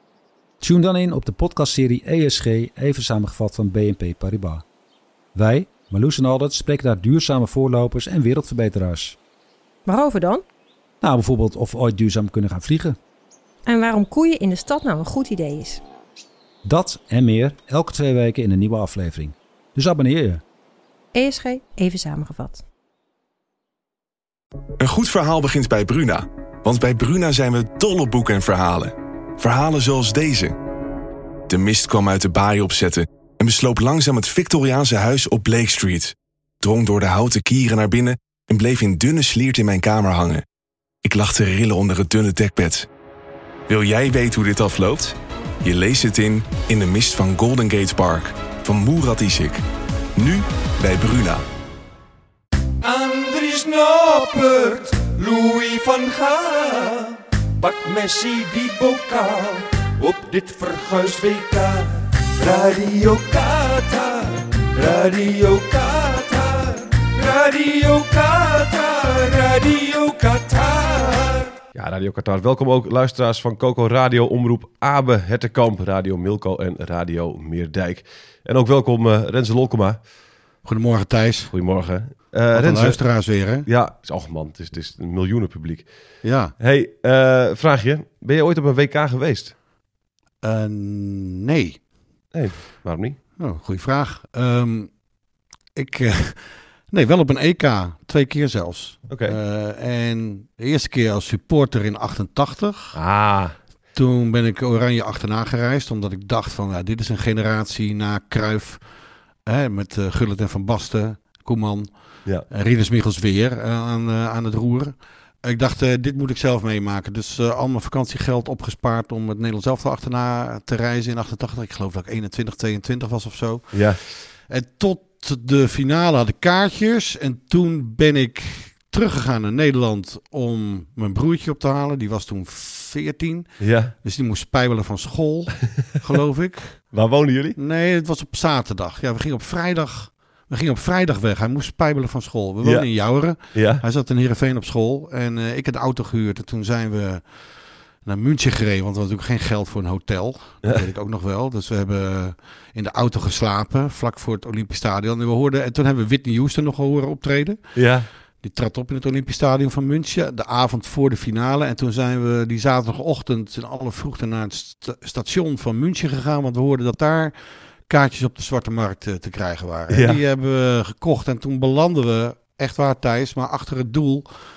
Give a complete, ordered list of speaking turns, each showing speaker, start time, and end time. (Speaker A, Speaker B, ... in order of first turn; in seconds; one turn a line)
Speaker A: 0.6-4.6
Speaker A: 5.3-9.2
Speaker B: 9.8-10.4
Speaker A: 11.0-13.0
Speaker B: 13.7-15.8
Speaker A: 16.6-20.4
Speaker B: 21.1-22.6
Speaker C: 24.8-30.6
Speaker C: 31.5-40.4
Speaker C: 41.0-42.9
Speaker C: 43.7-49.6
Speaker C: 50.1-51.4
Speaker D: 52.8-71.5
Speaker E: 71.7-80.0
Speaker F: 80.6-81.5
Speaker E: 81.5-83.0
Speaker F: 82.5-83.7
Speaker E: 83.6-85.9
Speaker F: 86.2-86.5
Speaker E: 86.6-89.5
Speaker F: 90.4-91.8
Speaker E: 92.3-93.2
Speaker F: 93.4-94.9
Speaker F: 95.7-103.0
Speaker E: 99.1-99.4
Speaker E: 102.9-103.5
Speaker F: 103.9-108.8
Speaker F: 109.5-111.9
Speaker F: 112.5-133.5
Speaker E: 123.7-124.0
Speaker E: 133.6-133.9
Speaker F: 134.0-136.8
Speaker E: 136.9-137.6
Speaker F: 137.6-147.2
Speaker E: 142.6-142.9
Speaker E: 143.5-143.8
Speaker F: 148.0-157.6
Speaker E: 157.8-158.1
Speaker F: 158.4-167.3
Speaker F: 167.9-174.2
Speaker E: 169.9-170.2